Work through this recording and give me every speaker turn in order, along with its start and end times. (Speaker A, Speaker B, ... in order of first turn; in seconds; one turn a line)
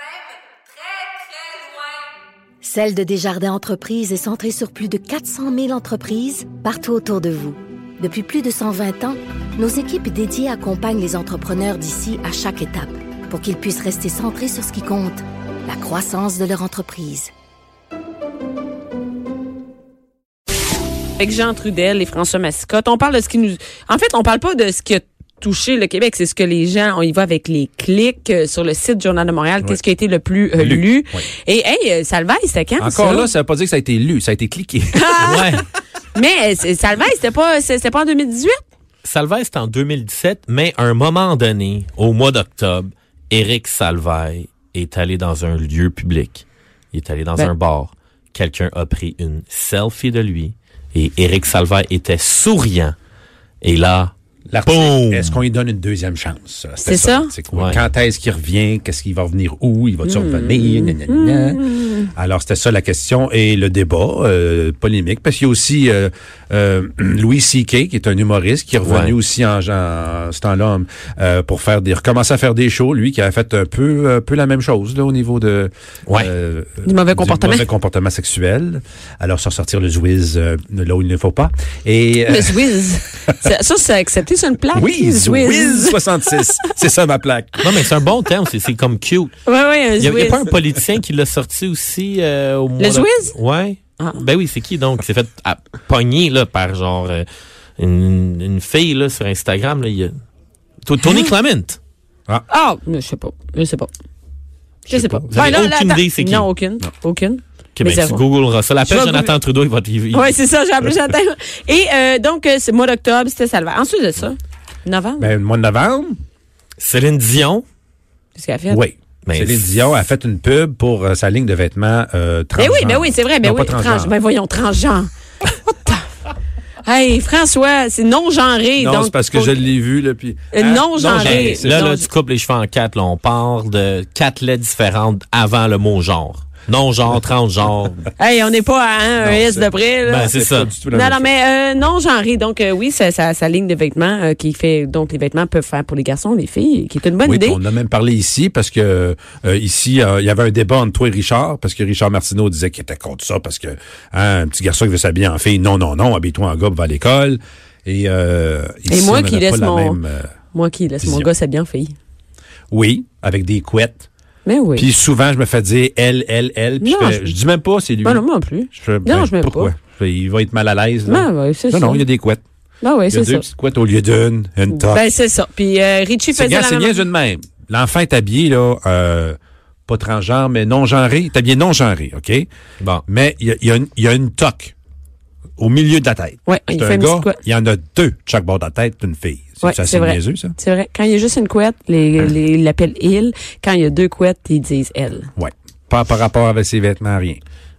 Speaker A: 2.6-17.3
Speaker B: 21.2-33.3
Speaker C: 30.6-31.2
Speaker C: 32.8-35.5
Speaker B: 34.9-35.5
Speaker D: 35.2-35.6
Speaker B: 36.1-38.6
Speaker D: 39.0-53.0
Speaker D: 53.6-54.1
Speaker C: 54.5-82.8
Speaker D: 54.6-55.4
Speaker B: 56.8-57.3
Speaker D: 57.5-57.8
Speaker B: 60.0-62.1
Speaker D: 68.8-69.1
Speaker B: 76.8-77.6
Speaker B: 82.3-86.4
Speaker C: 84.7-87.7
Speaker D: 87.6-89.3
Speaker B: 89.4-90.5
Speaker D: 90.0-97.2
Speaker B: 92.8-93.3
Speaker D: 97.8-100.1
Speaker D: 100.8-101.8
Speaker B: 102.5-103.9
Speaker C: 104.9-105.6
Speaker B: 104.9-108.2
Speaker D: 105.3-106.5
Speaker D: 107.8-110.3
Speaker B: 108.9-109.3
Speaker B: 110.1-115.3
Speaker C: 115.2-116.2
Speaker D: 116.8-117.6
Speaker B: 118.3-118.8
Speaker C: 118.7-124.1
Speaker D: 119.2-119.8
Speaker B: 122.5-125.1
Speaker B: 126.8-129.7
Speaker C: 128.8-131.8
Speaker B: 130.5-132.1
Speaker D: 131.2-138.0
Speaker B: 138.2-140.3
Speaker C: 139.2-141.3
Speaker D: 140.1-140.7
Speaker B: 140.9-147.6
Speaker C: 147.2-160.3
Speaker B: 158.9-160.0
Speaker B: 160.5-161.9
Speaker C: 161.0-161.3
Speaker C: 162.7-164.1
Speaker B: 164.4-164.9
Speaker C: 164.8-172.4
Speaker B: 166.8-167.3
Speaker B: 168.0-169.7
Speaker B: 171.1-172.0
Speaker B: 172.8-173.4
Speaker C: 173.1-175.1
Speaker B: 174.7-177.0
Speaker C: 176.3-182.5
Speaker C: 183.1-184.7
Speaker C: 185.6-190.6
Speaker B: 186.4-187.4
Speaker B: 189.6-195.3
Speaker C: 195.4-197.4